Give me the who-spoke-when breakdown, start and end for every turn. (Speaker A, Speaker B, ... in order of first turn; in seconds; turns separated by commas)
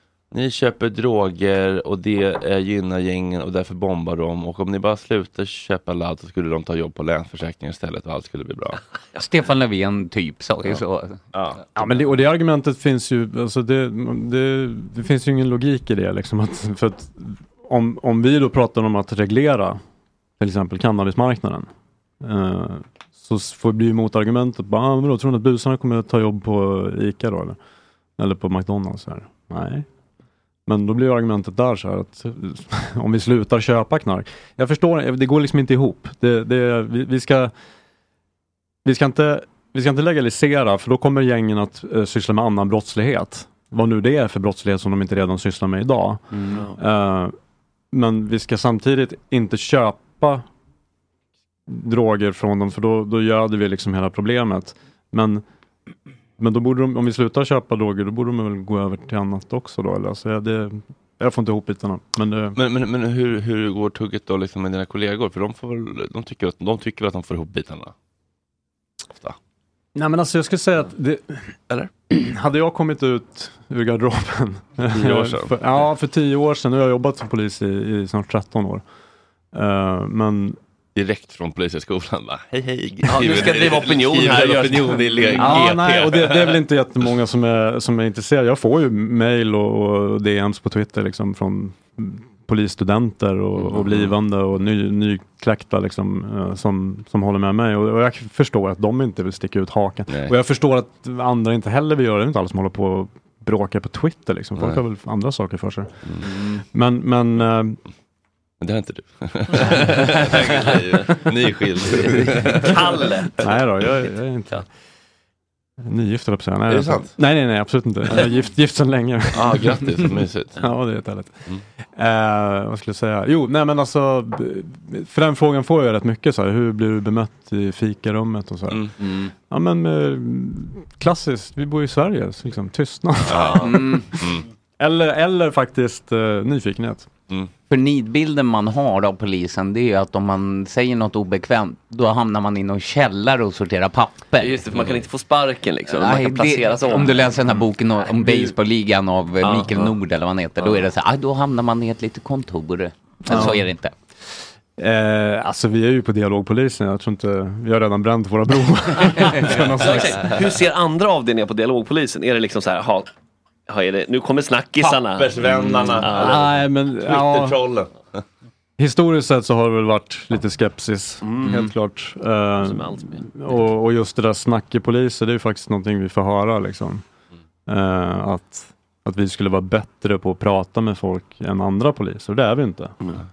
Speaker A: 0.3-8.8, Speaker B: 9.2-11.2, Speaker A: 11.3-11.6, Speaker C: 11.8-19.8, Speaker C: 20.4-21.7, Speaker C: 22.2-27.6, Speaker C: 28.2-29.9, Speaker C: 30.7-37.5, Speaker C: 38.8-47.3, Speaker B: 46.3-46.7, Speaker C: 47.9-50.4, Speaker C: 51.7-55.4, Speaker C: 56.4-62.6, Speaker A: 62.5-67.9, Speaker C: 69.9-71.5, Speaker C: 72.1-78.8, Speaker A: 74.9-75.6, Speaker C: 79.5-80.6, Speaker A: 80.9-86.6, Speaker D: 83.1-86.0, Speaker C: 85.3-107.8, Speaker A: 93.5-94.2, Speaker A: 100.1-100.3, Speaker A: 104.5-104.8, Speaker B: 106.2-106.6, Speaker A: 108.6-113.4, Speaker D: 112.6-113.6, Speaker C: 113.4-114.6, Speaker C: 115.8-128.9, Speaker A: 116.7-117.2, Speaker A: 119.3-120.6, Speaker B: 129.0-129.3, Speaker C: 129.4-134.2, Speaker A: 133.2-134.4, Speaker B: 133.6-134.1, Speaker C: 134.8-137.1, Speaker B: 137.7-144.6, Speaker D: 144.4-147.3, Speaker A: 144.7-145.1, Speaker B: 145.9-153.9, Speaker D: 149.4-149.9, Speaker C: 153.2-153.7, Speaker C: 154.8-160.3, Speaker B: 159.3-159.7, Speaker D: 159.8-163.1, Speaker D: 163.7-165.3, Speaker A: 164.8-168.2, Speaker B: 165.6-166.0, Speaker D: 166.0-166.4, Speaker C: 166.2-167.6, Speaker C: 168.8-177.0, Speaker D: 171.2-171.7, Speaker D: 172.6-173.3, Speaker C: 177.7-182.9